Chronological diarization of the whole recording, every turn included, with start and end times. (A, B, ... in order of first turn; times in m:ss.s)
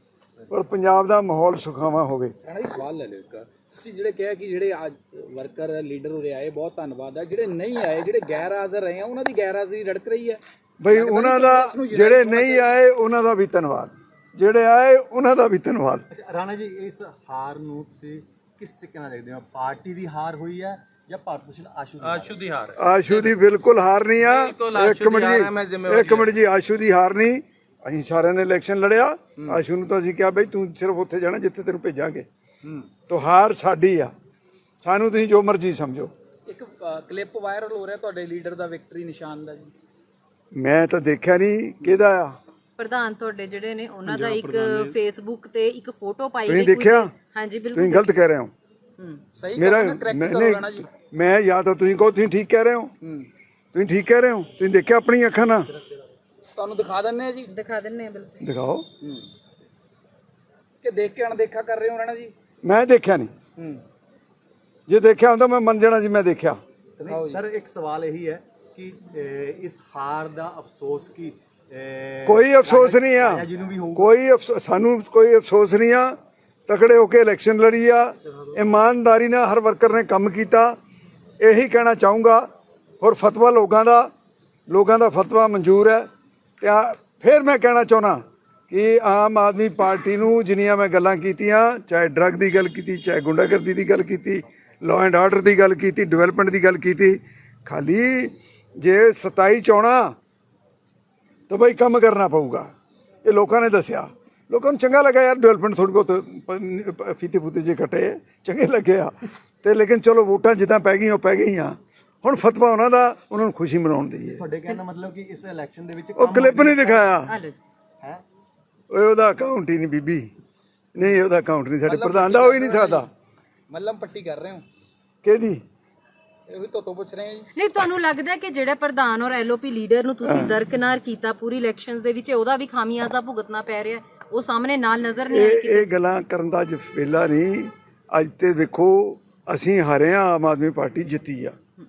0:00.5-0:02.3 A
0:02.4-0:12.7 B
0:10.8-0:16.1 A
0:16.1-0:22.4 C
0:22.0-0:23.4 D
0:22.8-0:32.2 A
0:24.2-0:26.4 D
0:33.1-0:34.1 A
0:34.8-0:36.1 A
0:36.4-0:39.7 B
0:40.5-0:42.4 A
0:42.8-0:48.0 E
0:46.5-0:47.1 A
0:47.7-0:48.5 A
0:49.4-0:50.9 B
0:49.6-0:52.9 A
0:53.0-0:53.3 B
0:53.7-0:55.7 A
0:56.6-0:57.5 B
0:57.5-0:58.5 E
0:58.4-0:58.8 A
0:59.0-0:59.3 B
1:00.8-1:02.3 B
1:02.6-1:03.3 A
1:04.9-1:06.6 A
1:07.0-1:14.1 C
1:07.1-1:07.4 B
1:12.2-1:13.4 A
1:13.9-1:16.2 A
1:16.7-1:20.7 A
1:21.4-1:22.4 A
1:23.0-1:24.1 A
1:24.7-1:26.1 A
1:26.6-1:40.1 A
1:41.5-1:42.7 A
1:43.2-1:54.4 A
1:54.4-1:57.2 C
1:56.2-1:57.3 A
1:57.3-1:57.6 E
1:58.9-2:00.3 A
2:00.9-2:03.1 A
2:01.8-2:03.1 B
2:03.7-2:04.6 B
2:05.2-2:05.6 A
2:06.5-2:07.5 B
2:07.6-2:15.9 E
2:10.2-2:10.6 A
2:15.3-2:21.5 A